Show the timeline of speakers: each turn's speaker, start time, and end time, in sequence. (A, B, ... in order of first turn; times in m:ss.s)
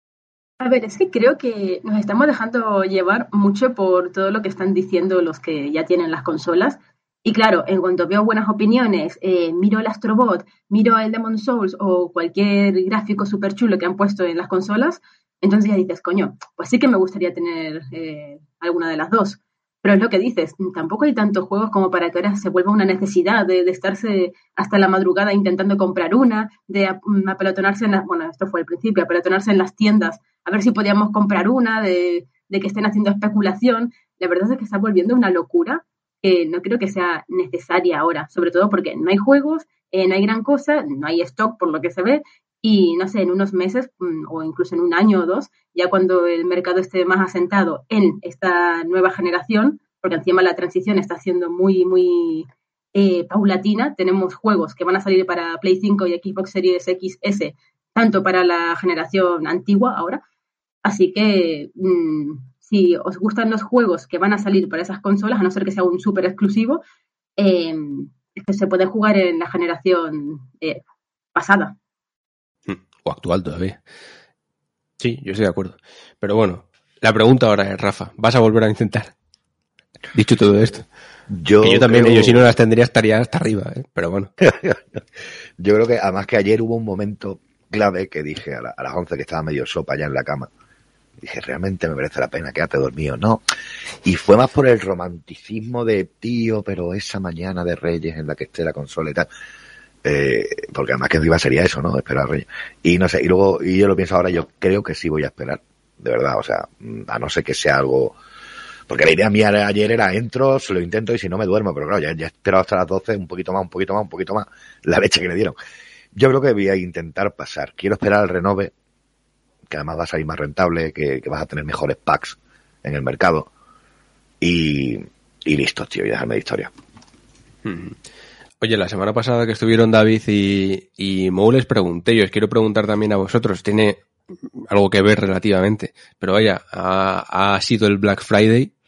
0:00.6-1:00.2 A
1:00.8-1:06.8 A
1:07.4-1:10.8 A
1:11.4-1:11.8 A
1:12.7-1:13.8 B
1:15.0-1:19.1 B
1:20.1-1:20.9 B
1:21.3-1:22.5 C
1:21.6-1:24.3 B
1:24.4-1:24.8 C
1:25.6-1:30.5 C
1:31.2-1:33.4 C
1:34.0-1:39.3 C
1:40.0-1:48.2 C
1:48.9-1:55.6 C
1:56.1-1:58.7 C
1:59.7-2:03.5 C
2:04.4-2:06.7 C
2:07.6-2:08.0 B
2:08.6-2:14.0 B
2:14.6-2:18.7 B